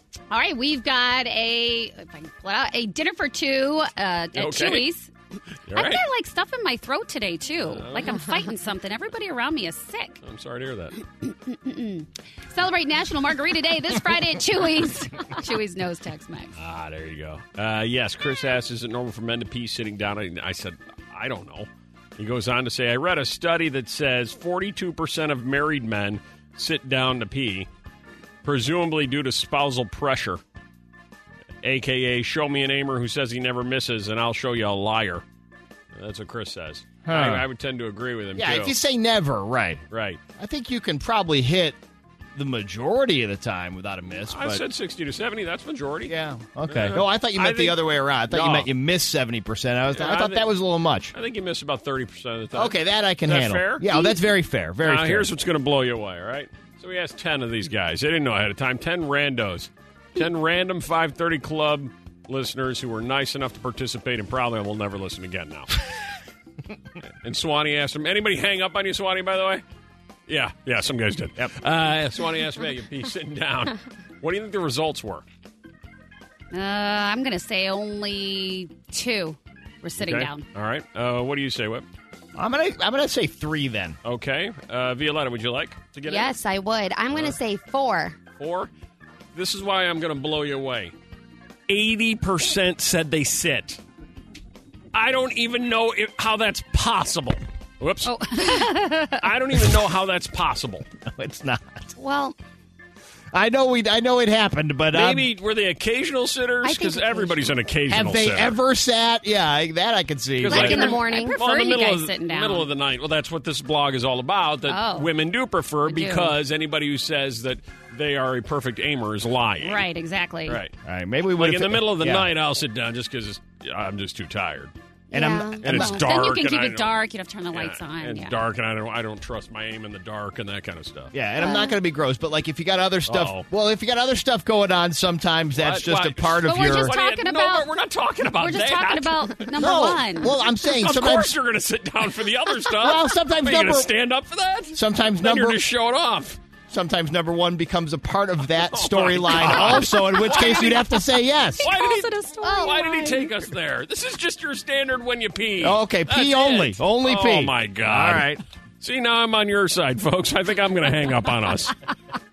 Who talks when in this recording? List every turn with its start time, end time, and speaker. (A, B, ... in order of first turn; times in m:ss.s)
0:00.3-0:05.1 A
0:04.3-0:04.9 B
0:05.7-0:06.0 B
0:05.7-0:10.2 A
0:07.6-0:08.3 B
0:10.2-0:11.0 B
0:11.2-0:16.5 A
0:16.6-0:27.7 B
0:28.4-0:30.4 B
0:31.6-0:35.2 B
0:35.9-0:38.8 B
0:37.0-0:37.5 C
0:38.4-0:39.8 C
0:39.9-0:40.2 B
0:40.4-0:41.8 C
0:42.3-0:44.6 C
0:44.2-0:46.2 B
0:46.1-0:51.1 C
0:46.7-0:48.7 B
0:49.9-0:50.5 B
0:51.1-0:54.1 B
0:52.5-0:55.3 C
0:54.8-1:05.8 B
1:07.2-1:09.6 B
1:10.3-1:15.2 B
1:16.5-1:20.4 A
1:20.0-1:21.9 B
1:22.4-1:24.0 C
1:24.0-1:26.3 B
1:26.1-1:28.2 D
1:28.4-1:28.7 B
1:29.3-1:30.9 B
1:31.7-1:33.8 B
1:34.9-1:38.2 B
1:38.0-1:39.2 A
1:39.2-1:40.9 B
1:41.1-1:41.9 C
1:42.0-1:42.4 D
1:43.3-1:45.3 C
1:44.9-1:48.6 B
1:46.6-1:47.5 D
1:47.9-1:51.0 C
1:50.4-1:59.8 B
1:50.5-1:51.4 D
1:50.7-1:52.7 A
1:54.7-1:55.1 A
1:55.8-1:56.4 A
1:59.6-2:00.6 A
2:00.4-2:00.7 B
2:00.8-2:02.3 C
2:01.4-2:04.7 B
2:05.1-2:05.7 D
2:05.1-2:06.0 C
2:05.6-2:07.0 B
2:05.7-2:08.4 A
2:07.5-2:11.1 B
2:11.1-2:17.0 C
2:11.4-2:11.8 D
2:13.0-2:13.5 B
2:15.6-2:19.5 B
2:16.4-2:17.7 A
2:18.3-2:20.4 A
2:19.6-2:21.3 C
2:20.6-2:26.4 B
2:22.7-2:23.9 C
2:24.7-2:25.6 C
2:26.7-2:31.6 C
2:28.5-2:31.0 B
2:30.3-2:30.9 A
2:31.6-2:38.3 B
2:31.6-2:33.2 A
2:32.4-2:33.1 D
2:35.6-2:38.4 C
2:38.8-2:41.8 B